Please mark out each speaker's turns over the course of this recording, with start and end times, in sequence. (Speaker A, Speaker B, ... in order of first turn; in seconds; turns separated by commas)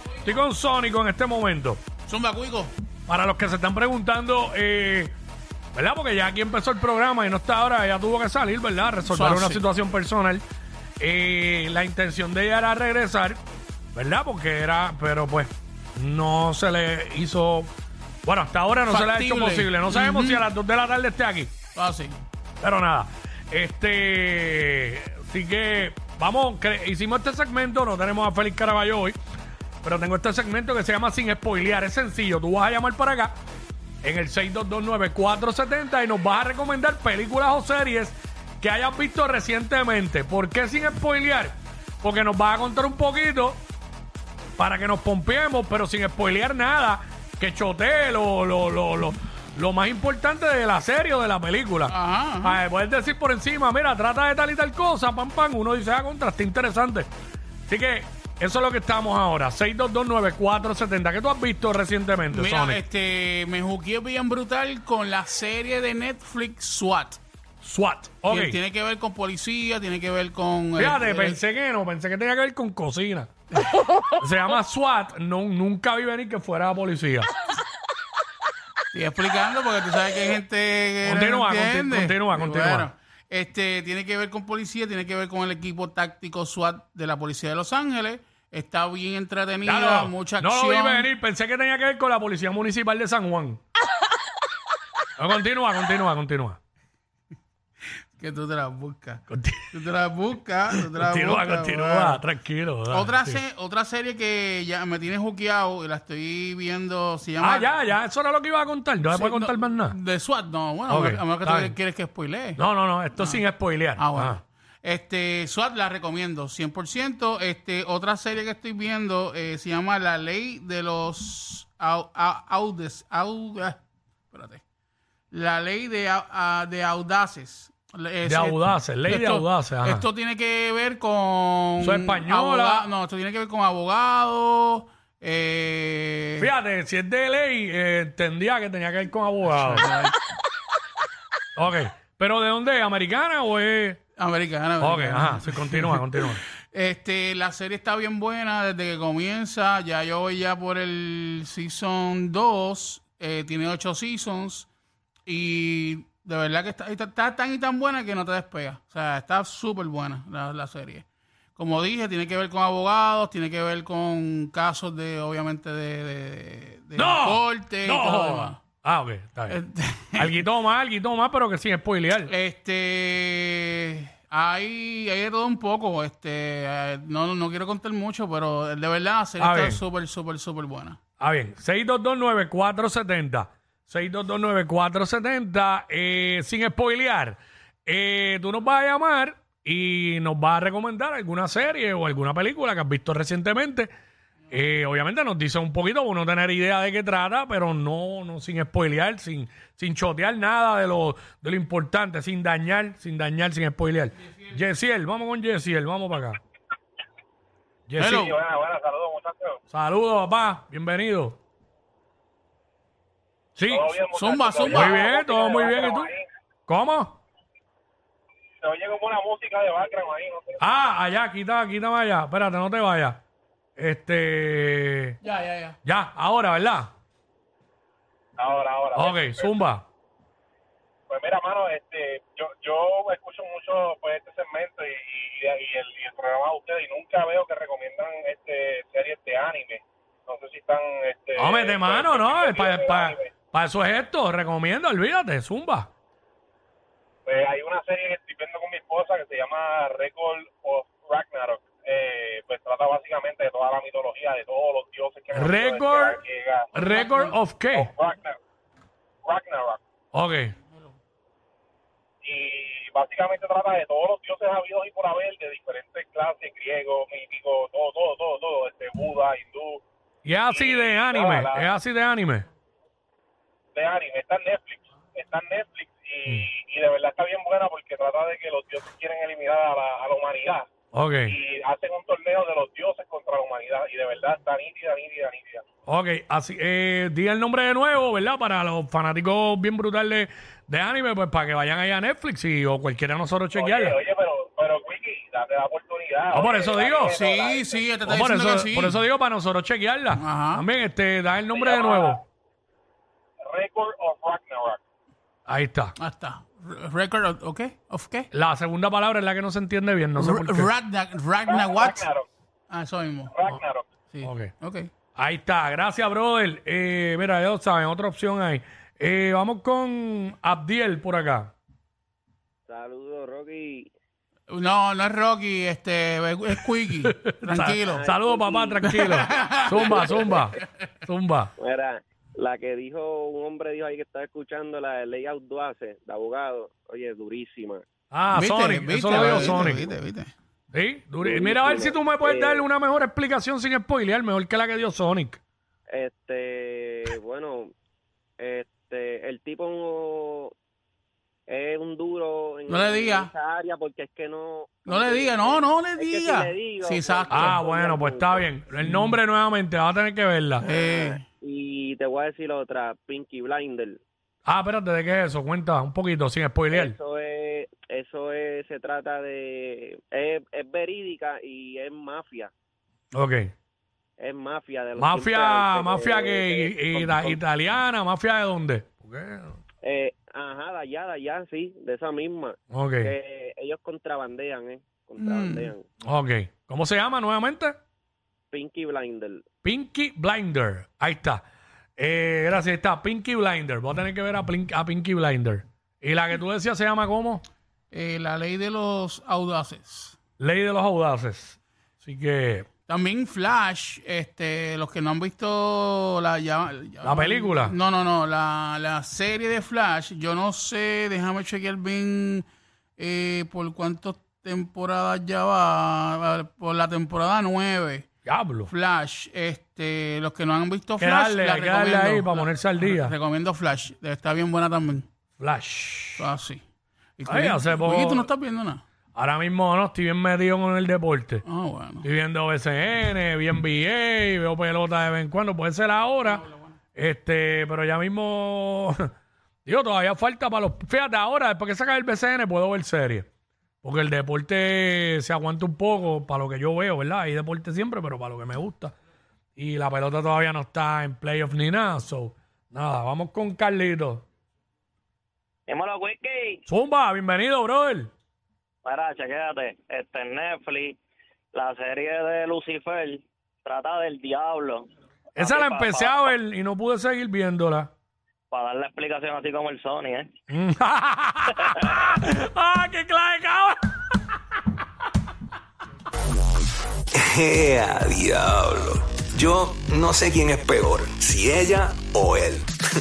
Speaker A: 0.2-1.8, Speaker B: 2.0-2.7, Speaker A: 3.1-5.1, Speaker A: 5.7-10.4, Speaker B: 9.1-9.6, Speaker A: 11.0-13.4, Speaker A: 13.9-17.7, Speaker A: 18.2-21.5, Speaker B: 18.9-20.4, Speaker B: 21.7-22.1, Speaker A: 22.6-29.2, Speaker A: 29.8-33.3, Speaker A: 34.0-43.6, Speaker A: 44.6-57.1, Speaker B: 51.9-52.6, Speaker A: 57.7-62.8, Speaker B: 62.3-67.2, Speaker A: 67.6-68.6, Speaker B: 68.3-71.4, Speaker A: 70.8-73.3, Speaker A: 74.1-77.3, Speaker B: 78.9-91.1, Speaker A: 81.0-82.9, Speaker A: 89.6-93.6, Speaker A: 95.2-96.6, Speaker B: 98.2-102.2, Speaker A: 99.3-99.7, Speaker A: 100.8-103.4, Speaker B: 102.9-107.8, Speaker A: 107.4-110.0, Speaker B: 109.1-112.6, Speaker A: 110.9-111.7, Speaker A: 112.6-114.4, Speaker B: 113.2-113.4, Speaker B: 113.9-123.8, Speaker B: 124.3-124.6, Speaker B: 125.3-136.5, Speaker A: 128.2-130.0, Speaker A: 131.8-132.9, Speaker A: 136.4-139.9, Speaker B: 139.5-140.2, Speaker A: 141.6-144.0, Speaker B: 144.2-154.7, Speaker A: 144.8-146.4, Speaker B: 155.2-161.0, Speaker B: 161.6-168.6, Speaker A: 166.9-169.6, Speaker B: 169.5-170.4, Speaker A: 170.2-172.3, Speaker B: 172.3-181.0, Speaker A: 179.4-179.8, Speaker A: 181.2-193.9, Speaker A: 194.5-206.4, Speaker A: 207.9-208.3, Speaker B: 208.0-208.3, Speaker C: 208.2-209.6, Speaker A: 209.7-211.4, Speaker A: 213.6-213.9, Speaker C: 213.7-216.2, Speaker B: 214.1-215.1, Speaker A: 214.7-216.1, Speaker A: 216.7-217.2, Speaker C: 218.6-220.6, Speaker A: 220.6-223.2, Speaker A: 223.8-225.2, Speaker B: 225.2-225.8, Speaker A: 225.8-226.9, Speaker C: 228.4-229.5, Speaker A: 228.9-229.8, Speaker C: 231.1-243.3, Speaker A: 241.3-245.9, Speaker C: 247.2-256.7, Speaker A: 255.3-256.2, Speaker A: 256.7-257.9, Speaker B: 256.8-257.3, Speaker C: 257.7-258.4, Speaker C: 259.2-259.8, Speaker A: 260.1-260.5, Speaker C: 262.2-269.8, Speaker A: 270.2-272.5, Speaker C: 270.5-271.6, Speaker C: 273.7-280.7, Speaker A: 280.9-281.3, Speaker C: 281.2-285.6, Speaker A: 285.9-294.0, Speaker C: 293.5-297.9, Speaker A: 296.3-297.2, Speaker B: 297.1-299.0, Speaker A: 298.1-302.2, Speaker B: 300.1-300.6, Speaker C: 301.5-302.1, Speaker C: 303.5-304.8, Speaker A: 305.4-305.9, Speaker B: 306.0-308.3, Speaker A: 308.3-310.7, Speaker B: 310.2-312.1, Speaker C: 311.5-312.2, Speaker B: 312.7-313.3, Speaker C: 313.3-313.9, Speaker B: 314.1-314.9, Speaker A: 314.2-314.5, Speaker A: 315.1-321.5, Speaker D: 322.7-323.9, Speaker B: 324.5-328.0, Speaker A: 327.2-331.5, Speaker D: 327.9-330.4, Speaker B: 328.8-330.2, Speaker D: 331.6-337.8, Speaker A: 338.1-339.8, Speaker B: 338.3-340.3, Speaker D: 339.1-339.7, Speaker A: 340.7-345.4, Speaker D: 341.2-342.7, Speaker D: 345.9-347.7, Speaker D: 348.4-350.5, Speaker D: 351.5-358.5, Speaker B: 352.7-353.3, Speaker B: 354.9-357.6, Speaker A: 357.3-360.6, Speaker B: 358.8-359.1, Speaker D: 360.6-364.0, Speaker B: 360.6-361.2, Speaker A: 364.4-366.9, Speaker D: 366.7-372.5, Speaker A: 373.1-373.5, Speaker D: 374.2-377.4, Speaker A: 375.0-379.5, Speaker D: 379.8-385.8, Speaker A: 382.7-383.1, Speaker B: 385.2-385.7, Speaker A: 386.0-387.8, Speaker D: 388.5-389.4, Speaker A: 389.6-391.4, Speaker A: 392.0-397.4, Speaker B: 397.9-400.2, Speaker A: 400.4-402.7, Speaker B: 402.9-412.4, Speaker A: 407.0-407.7, Speaker B: 413.0-418.1, Speaker A: 418.2-418.7, Speaker B: 418.7-425.1, Speaker A: 421.0-423.1, Speaker A: 425.4-426.3, Speaker B: 426.2-426.6, Speaker B: 427.2-428.8, Speaker A: 427.3-428.3, Speaker A: 429.1-431.4, Speaker B: 431.4-432.1, Speaker A: 432.0-439.0, Speaker B: 436.3-436.6, Speaker A: 439.6-443.3, Speaker A: 443.8-448.9, Speaker A: 449.6-454.2, Speaker E: 455.7-456.6, Speaker A: 456.7-458.1, Speaker E: 458.8-461.0, Speaker E: 461.5-466.3, Speaker A: 465.3-467.9, Speaker E: 468.5-470.3, Speaker A: 470.5-473.8, Speaker E: 471.6-472.0, Speaker F: 477.1-482.7